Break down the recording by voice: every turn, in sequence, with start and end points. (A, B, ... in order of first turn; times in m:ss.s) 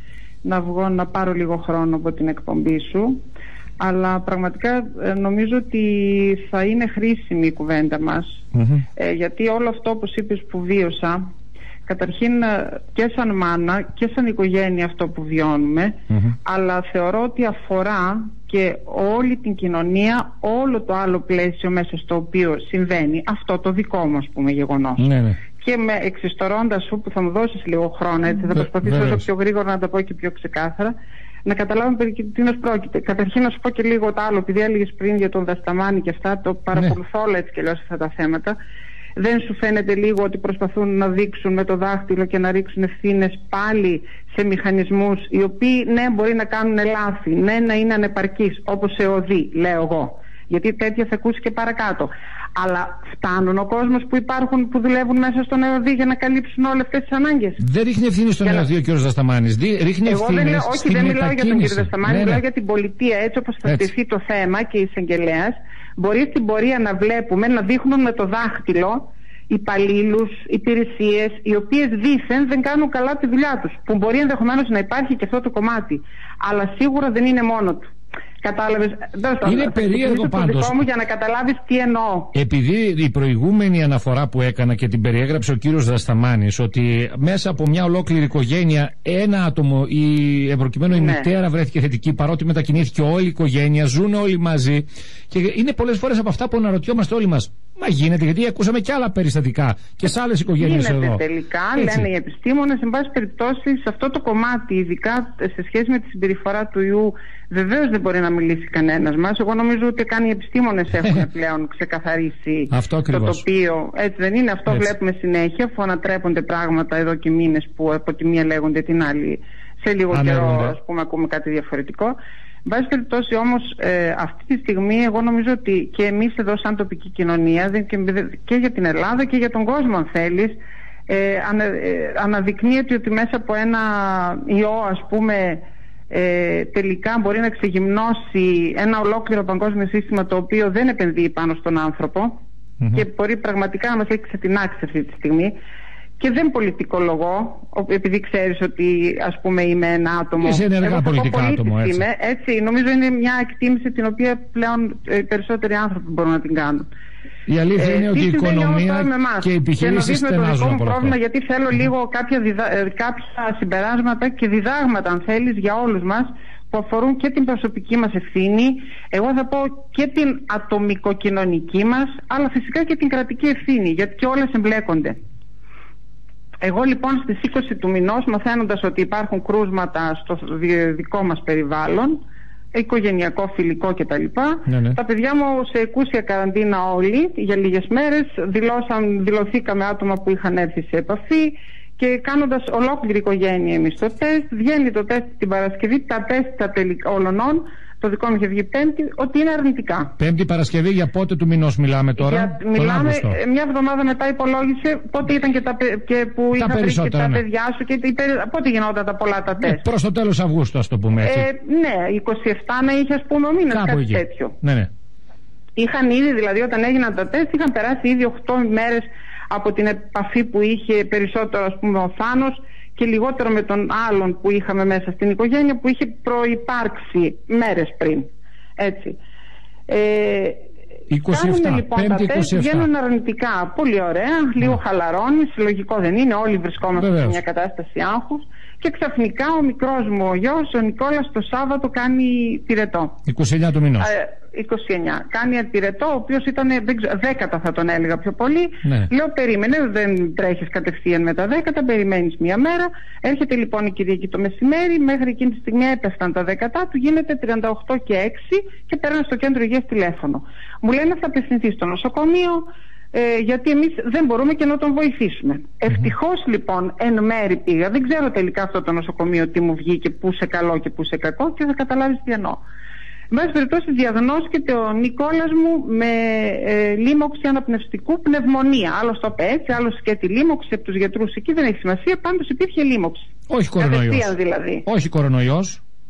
0:00.4-0:03.2 A
0:03.8-0:08.4 A
0:08.5-0:08.8 B
0:09.0-0:11.2 A
0:11.8-0:30.9 A
0:25.0-0:25.4 B
0:28.6-0:29.2 B
0:31.4-0:38.6 A
0:39.2-0:57.6 A
0:57.6-1:02.4 B
1:00.0-1:17.9 A
1:18.4-1:22.3 A
1:19.4-1:20.8 B
1:22.3-1:41.2 B
1:30.9-1:31.3 A
1:40.6-2:10.6 A
1:41.8-1:42.1 B
1:52.7-1:53.4 B
2:00.1-2:00.7 B
2:11.1-2:22.4 A
2:22.9-2:25.5 A
2:26.2-2:36.9 A
2:30.4-2:32.0 B
2:37.4-2:41.1 B
2:37.8-2:55.2 A
2:56.6-3:02.2 A
3:02.7-3:20.2 A
3:04.7-3:05.0 B
3:20.2-3:23.4 B
3:22.2-3:29.8 A
3:26.6-3:27.4 B
3:29.6-3:31.5 B
3:31.2-3:34.6 A
3:33.7-3:34.9 B
3:35.8-3:49.2 A
3:49.9-3:50.6 A
3:51.1-3:52.9 B
3:51.3-4:03.2 A
3:57.0-3:57.4 B
4:03.3-4:04.1 B
4:04.0-4:32.6 A
4:08.8-4:09.1 B
4:33.3-4:44.8 A
4:43.5-4:44.3 B
4:44.8-4:45.8 B